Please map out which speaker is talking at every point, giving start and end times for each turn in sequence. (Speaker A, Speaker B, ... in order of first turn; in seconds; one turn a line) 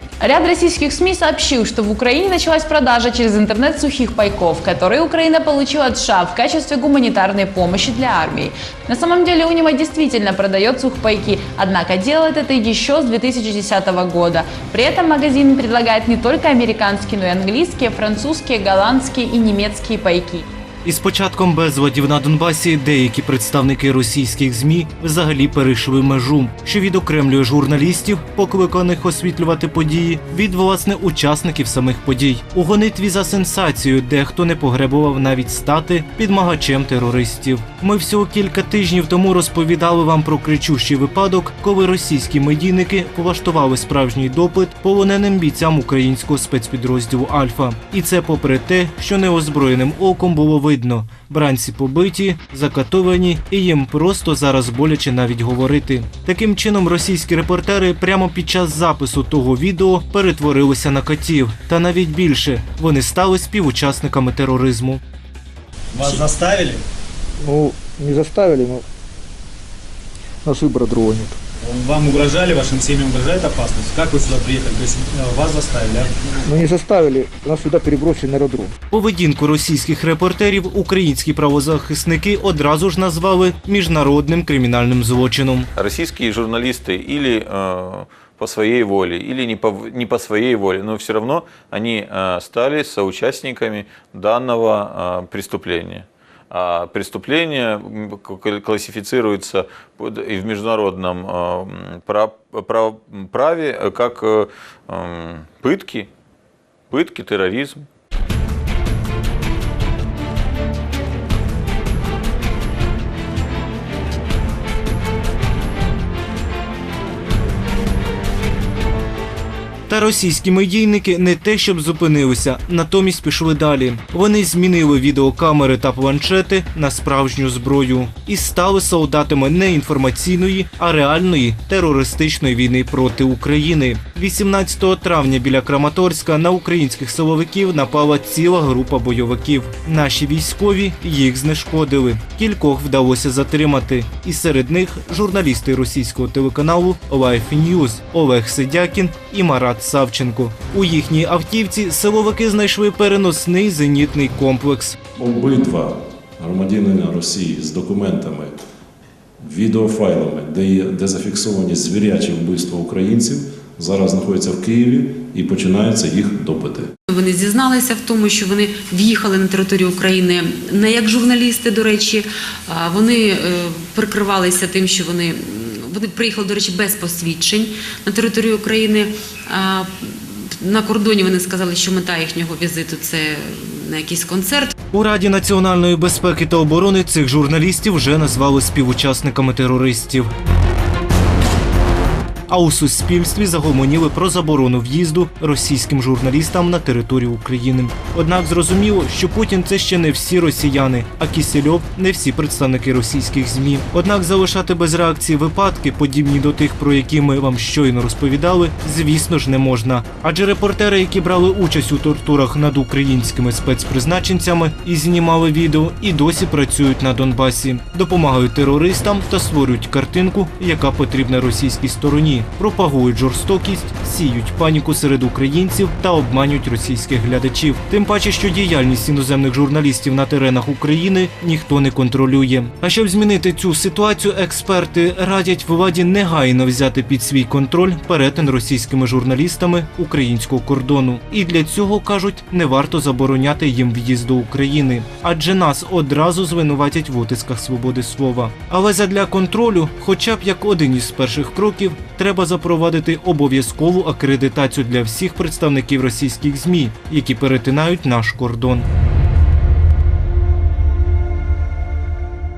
Speaker A: 0.2-20.4
Speaker B: 20.8-65.0
Speaker C: 65.9-66.8
Speaker D: 67.4-68.8
Speaker D: 70.4-71.4
Speaker C: 71.6-76.1
Speaker D: 76.5-78.7
Speaker B: 78.9-85.7
Speaker E: 85.8-106.1
Speaker E: 106.9-107.9
Speaker B: 119.9-155.0
Speaker F: 155.2-158.6
Speaker F: 159.4-166.9
Speaker G: 167.1-184.7
Speaker B: 184.9-190.3
Speaker B: 192.5-258.9